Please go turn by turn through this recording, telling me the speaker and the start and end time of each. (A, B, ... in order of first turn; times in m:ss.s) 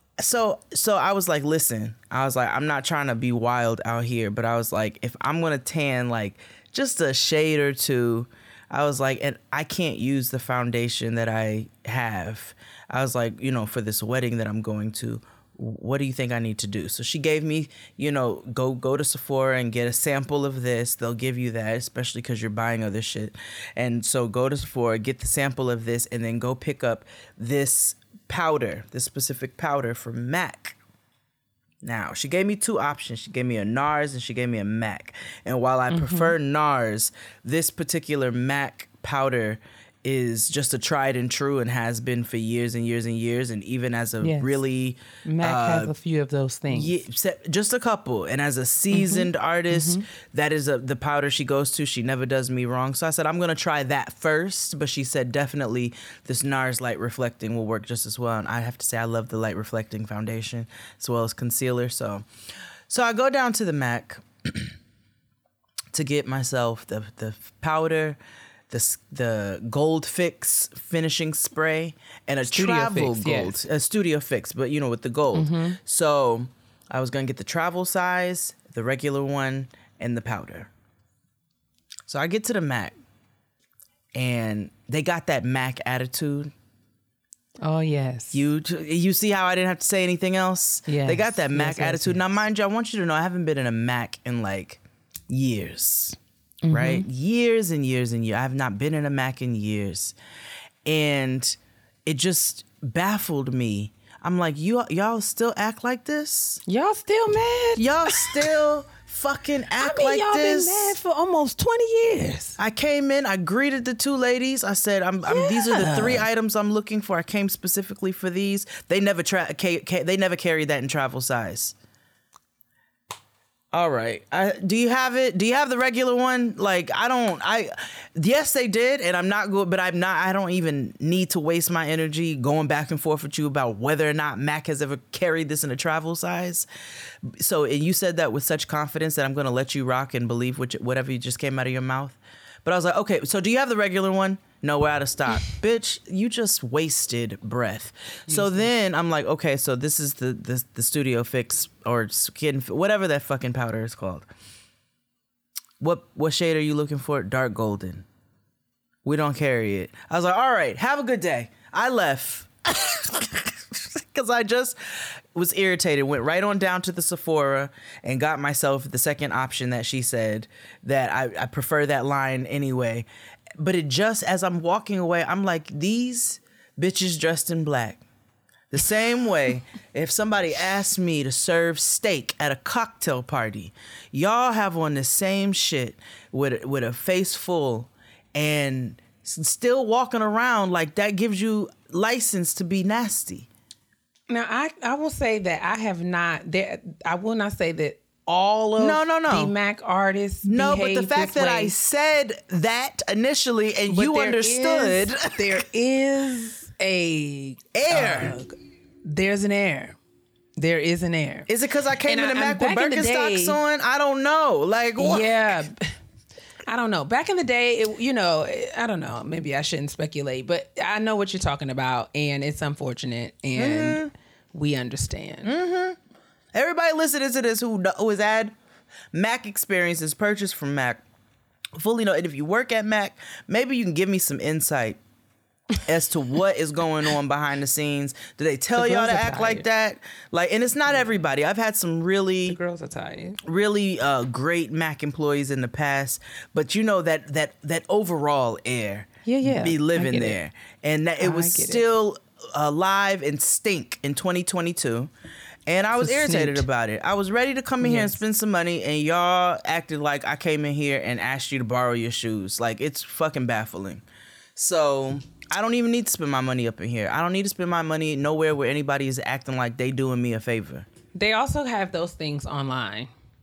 0:00.2-0:30.8 A
0:31.8-0:45.9 A
0:35.9-0:36.4 B
0:44.2-0:44.6 B
0:45.2-0:47.0 B
0:46.7-1:02.2 A
0:48.9-0:50.0 B
1:02.9-1:04.7 A
1:05.9-1:08.2 A
1:08.7-1:20.7 A
1:12.5-1:13.6 B
1:15.3-1:15.8 B
1:22.1-1:23.0 A
1:24.2-1:26.5 A
1:27.6-1:28.5 B
1:28.3-1:36.2 A
1:30.9-1:32.4 B
1:36.6-1:37.1 B
1:36.7-1:40.2 A
1:40.9-1:46.6 A
1:46.7-1:48.4 B
1:47.8-1:51.0 A
1:49.8-1:52.6 B
1:52.6-2:01.8 A
1:55.3-1:56.3 B
2:03.7-2:16.7 A
2:17.3-2:34.3 A
2:28.3-2:28.7 B
2:35.8-2:38.1 A
2:39.0-2:53.1 A
2:53.6-2:58.0 A
2:58.7-3:13.5 A
3:14.3-3:21.8 B
3:18.8-3:19.5 A
3:20.4-3:25.4 A
3:23.9-3:30.0 B
3:27.7-3:28.4 A
3:30.6-3:31.5 B
3:31.5-3:35.4 A
3:32.0-3:33.6 B
3:35.0-3:35.9 B
3:36.7-3:45.5 B
3:43.6-3:44.1 A
3:45.4-3:46.0 A
3:46.5-3:48.5 A
3:49.1-3:51.0 A
3:51.8-3:55.0 A
3:55.8-4:02.6 A
3:58.7-3:59.7 B
4:02.5-4:03.4 B
4:03.4-4:15.1 A
4:09.2-4:10.4 B
4:11.2-4:11.8 B
4:15.7-4:24.0 A
4:16.0-4:16.7 B
4:17.8-4:18.2 B
4:24.6-4:30.9 A
4:31.1-4:33.1 B